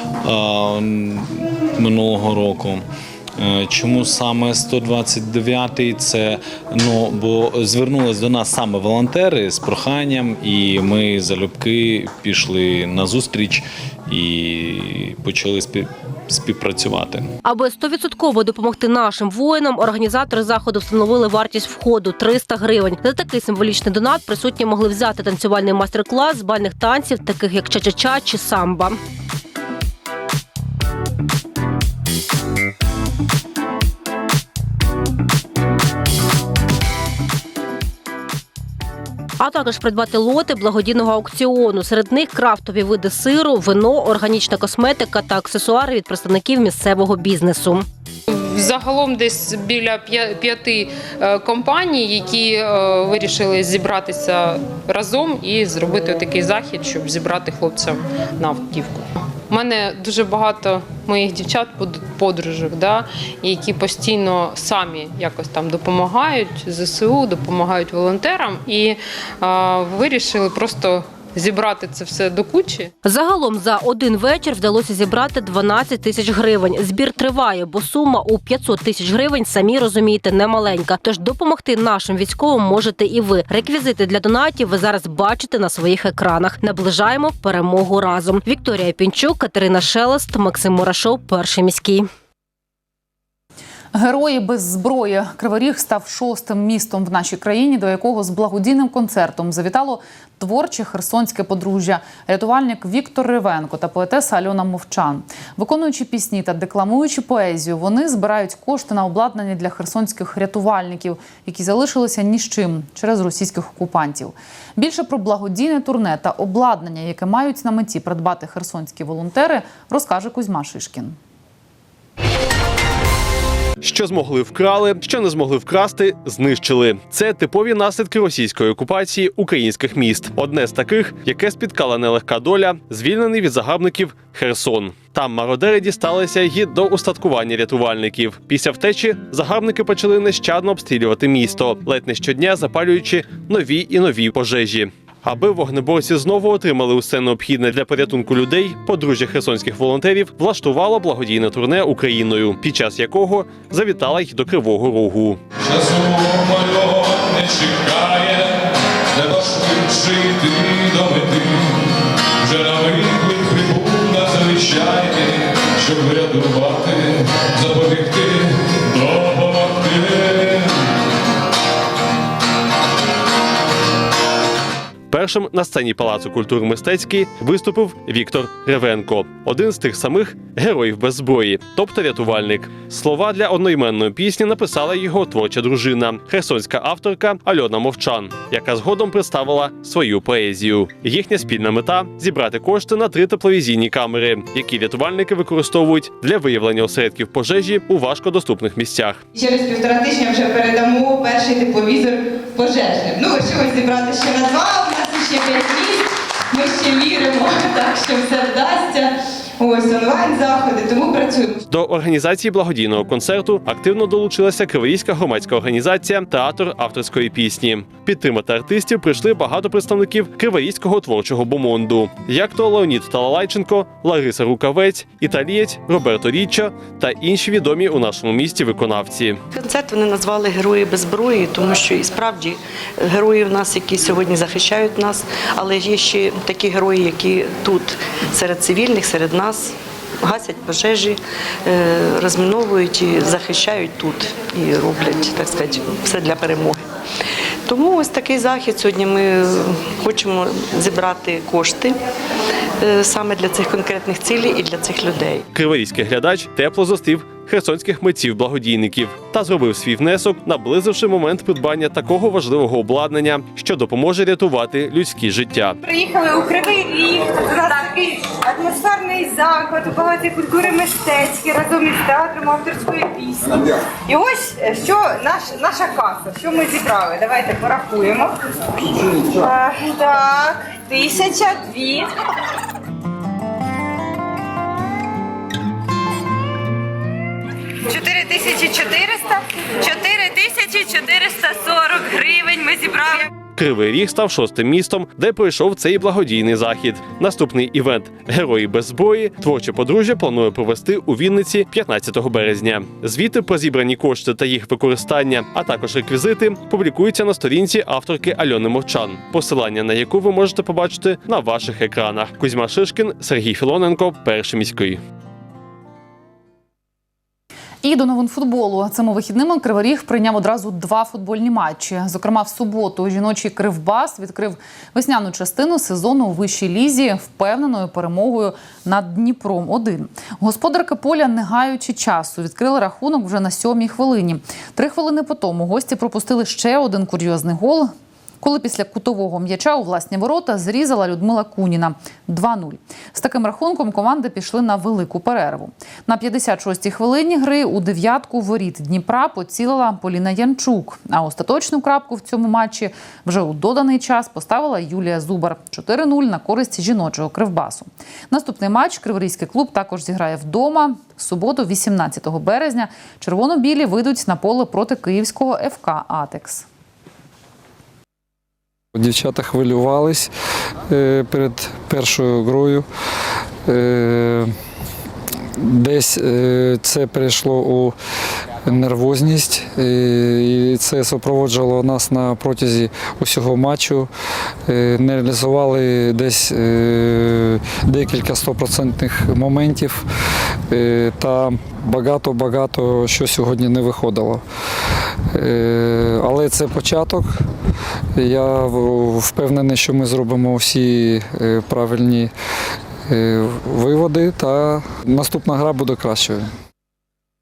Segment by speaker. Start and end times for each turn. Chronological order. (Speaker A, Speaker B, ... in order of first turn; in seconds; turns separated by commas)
Speaker A: 0.2-2.8, Speaker A: 3.4-17.3, Speaker B: 17.4-29.0, Speaker B: 39.4-47.9, Speaker C: 48.3-72.9, Speaker B: 73.0-92.1, Speaker D: 93.9-121.2, Speaker E: 123.8-155.4, Speaker F: 155.6-170.9, Speaker E: 175.1-199.2, Speaker G: 199.3-211.6, Speaker E: 211.7-229.4, Speaker H: 229.5-246.8, Speaker H: 247.7-252.0, Speaker H: 252.8-255.4, Speaker E: 255.5-265.8, Speaker G: 265.8-278.4, Speaker G: 279.3-282.1, Speaker G: 287.9-293.2, Speaker E: 293.6-315.0, Speaker D: 317.8-366.7, Speaker I: 368.9-370.3, Speaker I: 370.9-372.9, Speaker I: 373.7-374.5, Speaker I: 375.6-378.0, Speaker I: 378.6-384.1, Speaker I: 384.7-390.1, Speaker I: 390.7-394.4, Speaker I: 395.3-397.4, Speaker I: 398.2-402.3, Speaker I: 403.1-406.5